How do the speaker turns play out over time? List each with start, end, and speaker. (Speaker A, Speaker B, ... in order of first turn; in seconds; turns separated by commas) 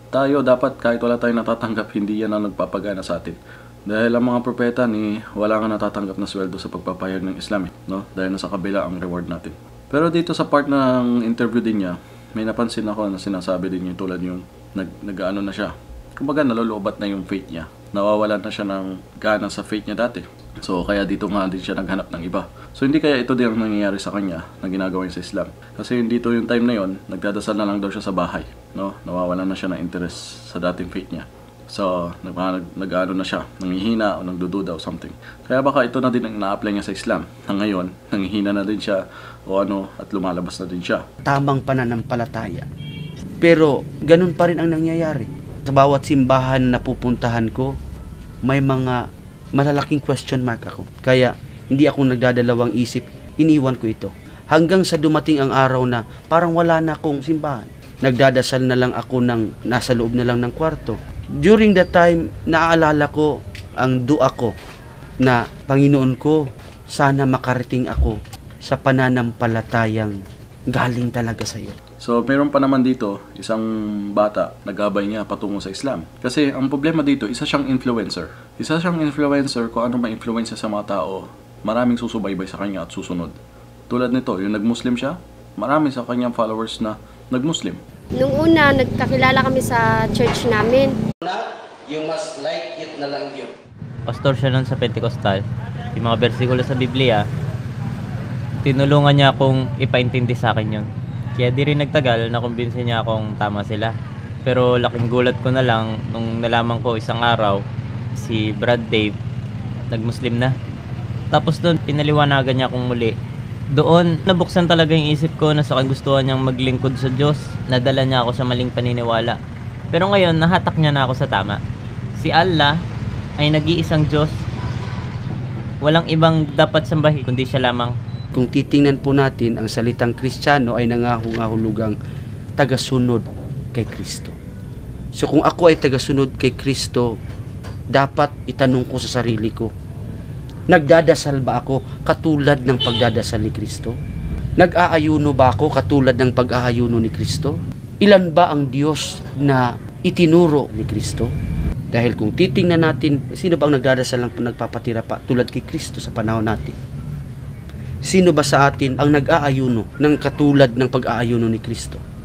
Speaker A: 0.1-41.0, Speaker B: 41.3-42.7, Speaker B: 43.4-47.7, Speaker B: 48.5-49.0, Speaker B: 49.6-63.3, Speaker B: 63.8-64.5, Speaker B: 65.2-70.2, Speaker B: 70.7-71.8, Speaker A: 72.0-83.4, Speaker A: 83.9-87.8, Speaker C: 88.2-91.0, Speaker B: 91.2-93.5, Speaker D: 94.1-95.4, Speaker D: 96.0-97.2, Speaker D: 98.6-103.9, Speaker D: 104.5-107.6, Speaker D: 108.2-109.2, Speaker D: 109.9-110.5, Speaker D: 111.3-113.2, Speaker D: 113.8-119.4, Speaker D: 119.9-121.6, Speaker D: 122.2-122.7, Speaker D: 123.4-124.3, Speaker D: 125.8-128.0, Speaker B: 128.3-131.9, Speaker B: 132.6-134.4, Speaker B: 135.2-137.1, Speaker B: 137.9-139.7, Speaker B: 140.7-144.0, Speaker B: 144.6-151.3, Speaker B: 151.9-156.8, Speaker B: 158.0-162.0